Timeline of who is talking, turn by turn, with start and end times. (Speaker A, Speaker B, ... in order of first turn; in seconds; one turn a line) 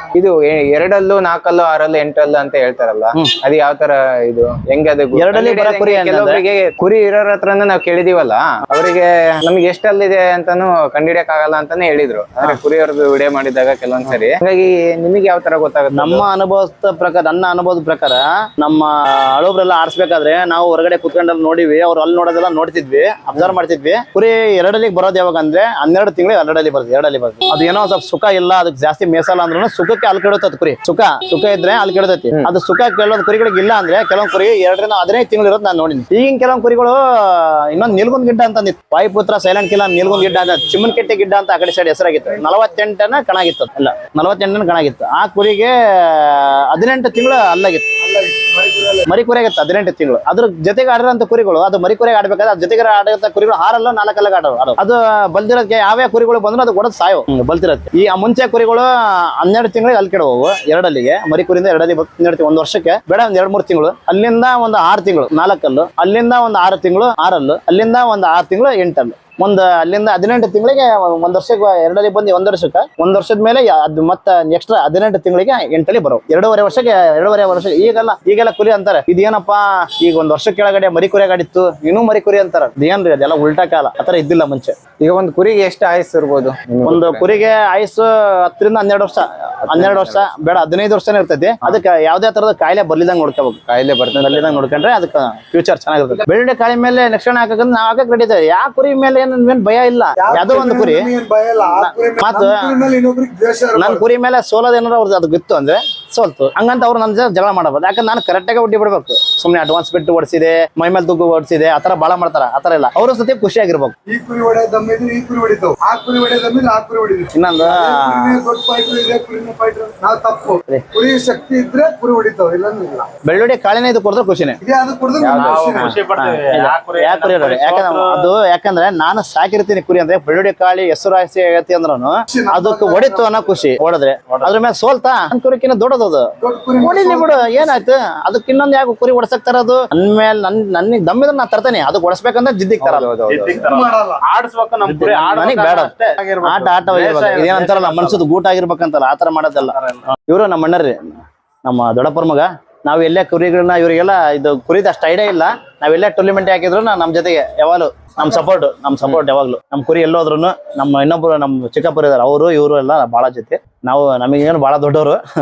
Speaker A: 0.1-16.2
Speaker B: 5.1-6.4
Speaker B: 15.9-47.9
Speaker C: 40.0-40.9
Speaker C: 42.2-42.7
Speaker C: 48.0-49.1
Speaker B: 49.0-84.8
Speaker A: 85.0-87.3
Speaker B: 86.8-93.6
Speaker A: 89.7-90.4
Speaker A: 93.7-94.6
Speaker B: 94.1-101.1
Speaker C: 100.2-104.0
Speaker B: 101.8-102.7
Speaker B: 103.8-113.9
Speaker C: 114.1-123.1
Speaker B: 117.3-118.4
Speaker B: 123.2-124.6
Speaker C: 124.6-126.0
Speaker A: 125.2-125.9
Speaker D: 125.3-128.3
Speaker B: 125.8-143.1
Speaker C: 132.3-133.5
Speaker C: 136.4-137.8
Speaker A: 142.8-143.7
Speaker D: 143.2-148.2
Speaker C: 143.6-144.2
Speaker B: 144.8-151.1
Speaker D: 149.7-150.0
Speaker B: 151.6-165.2